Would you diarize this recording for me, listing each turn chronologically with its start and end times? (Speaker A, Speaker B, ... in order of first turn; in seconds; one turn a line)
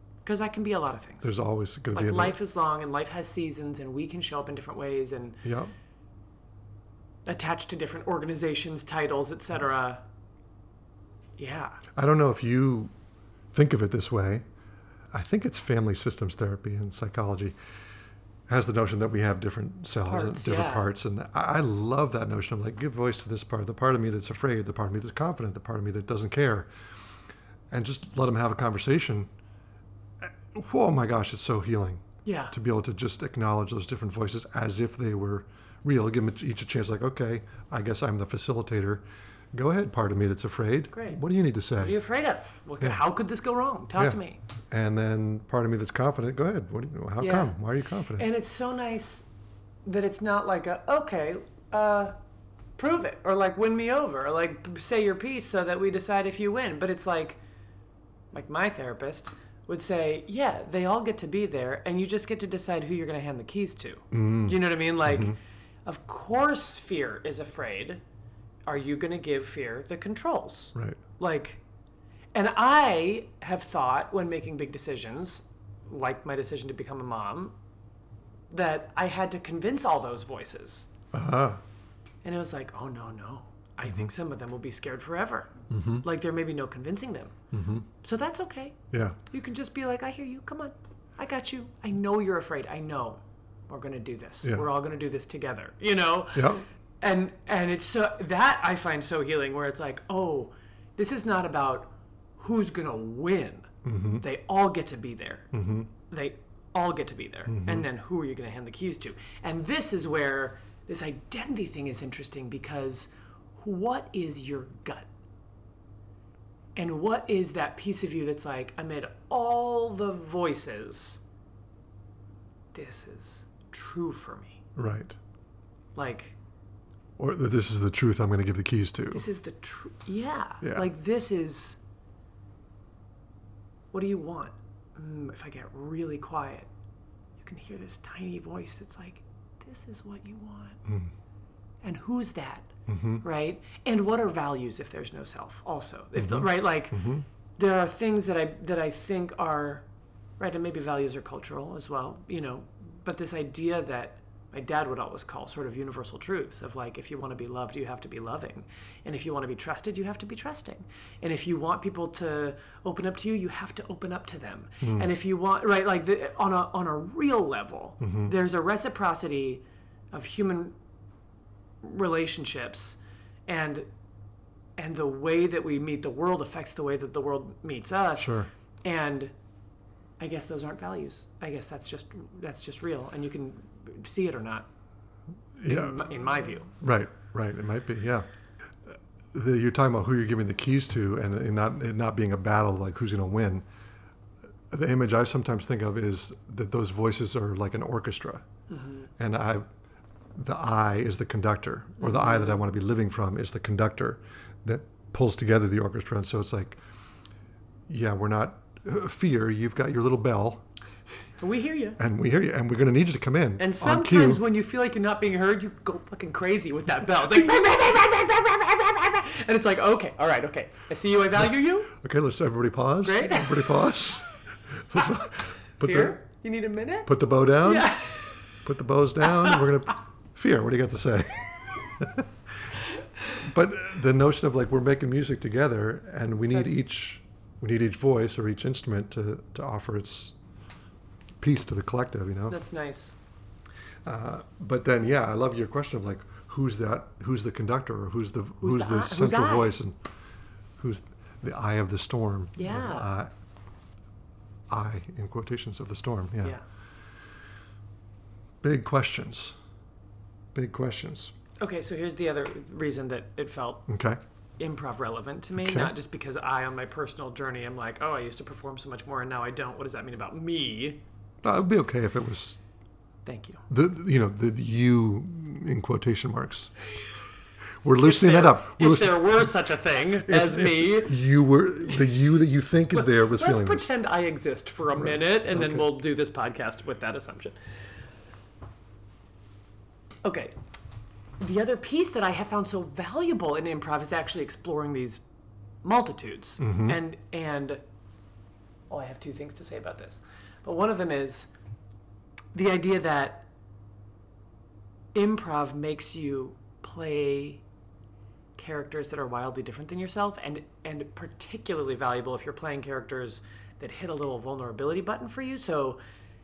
Speaker A: 0.2-1.3
Speaker B: 1.2-2.4
Speaker A: 1.9-5.4
Speaker B: 5.4-5.7
Speaker A: 7.3-10.0
Speaker A: 11.4-11.8
Speaker B: 11.9-12.9
Speaker B: 13.5-14.4
Speaker B: 15.1-17.6
Speaker B: 18.5-26.7
Speaker A: 20.1-20.9
Speaker B: 27.7-29.3
Speaker B: 30.2-39.0
Speaker A: 32.2-32.5
Speaker B: 39.5-42.0
Speaker A: 40.9-41.2
Speaker A: 41.8-44.4
Speaker B: 44.7-48.3
Speaker A: 47.2-47.5
Speaker A: 48.2-49.3
Speaker A: 49.9-52.1
Speaker A: 52.8-57.4
Speaker A: 58.3-68.0
Speaker B: 64.1-65.4
Speaker A: 68.7-71.6
Speaker B: 70.8-71.0
Speaker A: 72.3-77.5
Speaker A: 78.5-80.9
Speaker B: 81.1-81.6
Speaker A: 82.2-87.3
Speaker B: 85.7-86.0
Speaker B: 87.5-87.9
Speaker A: 88.0-88.8
Speaker B: 88.9-89.2
Speaker A: 89.3-105.5
Speaker B: 96.3-96.6
Speaker B: 103.8-104.2
Speaker B: 105.5-105.9
Speaker A: 106.1-115.1
Speaker B: 107.5-107.9
Speaker A: 116.8-121.2
Speaker A: 122.7-124.6
Speaker B: 124.8-125.2
Speaker A: 126.0-126.4
Speaker B: 127.2-129.2
Speaker A: 129.1-131.8
Speaker B: 130.6-130.9
Speaker A: 133.9-136.7
Speaker A: 137.4-140.8
Speaker B: 140.8-141.1
Speaker A: 141.8-147.0
Speaker B: 142.9-143.2
Speaker B: 146.2-147.3
Speaker A: 147.6-149.8
Speaker A: 150.4-170.8
Speaker B: 164.8-165.1
Speaker B: 168.0-168.3
Speaker A: 171.8-173.9
Speaker A: 174.8-179.3
Speaker B: 178.2-178.5
Speaker A: 180.2-184.7
Speaker B: 185.6-186.1
Speaker A: 185.7-186.7
Speaker B: 186.7-188.3
Speaker B: 188.9-193.7
Speaker B: 194.7-198.5
Speaker A: 198.7-199.1
Speaker B: 199.2-199.7
Speaker B: 200.3-206.8
Speaker A: 202.0-202.6
Speaker B: 207.9-210.6
Speaker A: 211.4-212.0
Speaker B: 212.0-214.4
Speaker A: 213.6-221.9
Speaker B: 221.9-226.2
Speaker A: 223.0-223.9
Speaker A: 225.8-227.1
Speaker B: 227.1-228.0
Speaker A: 227.6-228.6
Speaker B: 228.6-232.7
Speaker A: 229.2-229.6
Speaker B: 233.4-240.3
Speaker B: 241.4-242.6
Speaker A: 242.5-243.1
Speaker B: 244.1-250.0
Speaker A: 248.6-249.8
Speaker B: 250.8-253.3
Speaker A: 252.6-253.1
Speaker B: 254.7-256.6
Speaker B: 258.6-259.6
Speaker B: 260.5-261.3
Speaker A: 261.6-263.9
Speaker B: 263.9-264.2
Speaker A: 264.6-271.0
Speaker B: 265.6-265.9
Speaker B: 271.4-272.6
Speaker A: 273.3-273.6
Speaker B: 273.7-276.7
Speaker B: 277.8-279.5
Speaker A: 278.0-281.2
Speaker B: 280.2-283.9
Speaker A: 282.9-287.6
Speaker B: 284.9-285.9
Speaker A: 290.2-290.5
Speaker A: 291.4-295.2
Speaker A: 295.8-297.8
Speaker B: 296.6-297.0
Speaker A: 298.9-301.5
Speaker A: 302.5-303.5
Speaker A: 305.1-307.6
Speaker A: 308.6-316.0